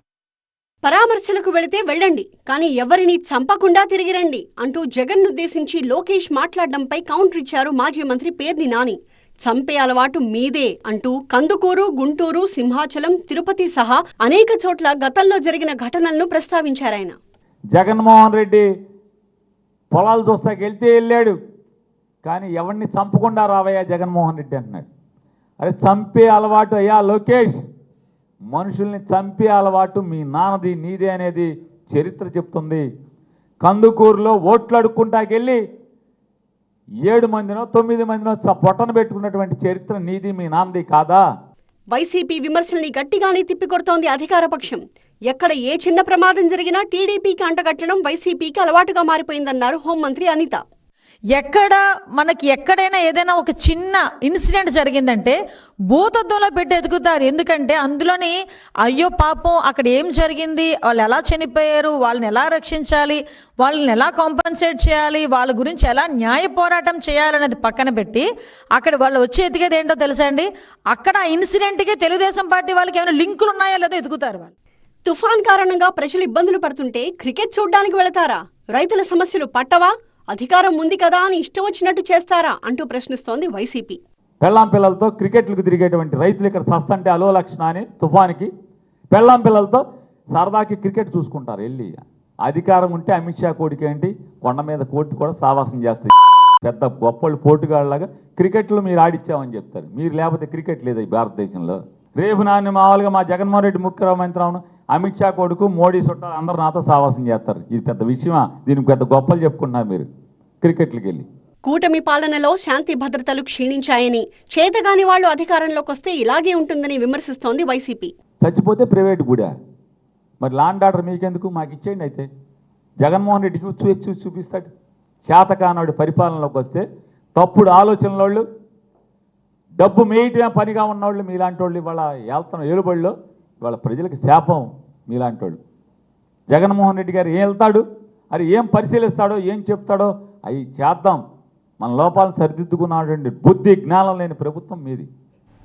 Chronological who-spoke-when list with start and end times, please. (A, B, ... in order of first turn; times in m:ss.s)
0:00.8-0:17.2 A
0:17.7-0:18.7 B
0:19.9-0:21.3 B
0:22.2-0:24.9 B
0:25.6-0:27.6 B
0:28.5-0:32.8 B
0:33.6-0:35.6 B
0:37.0-0:41.2 B
0:41.9-0:50.6 A
0:51.4-0:55.4 C
0:55.9-1:14.5 C
1:15.0-1:24.0 A
1:24.4-1:28.5 B
1:29.1-1:29.8 B
1:30.3-1:31.9 B
1:32.4-1:36.1 B
1:36.6-1:50.1 B
1:50.6-1:51.2 B
1:51.6-1:58.1 A
1:58.4-1:59.5 B
2:00.4-2:02.3 B
2:03.0-2:04.7 B
2:05.2-2:06.8 B
2:07.4-2:08.4 B
2:09.8-2:15.6 B
2:16.5-2:21.2 B
2:21.8-2:25.1 B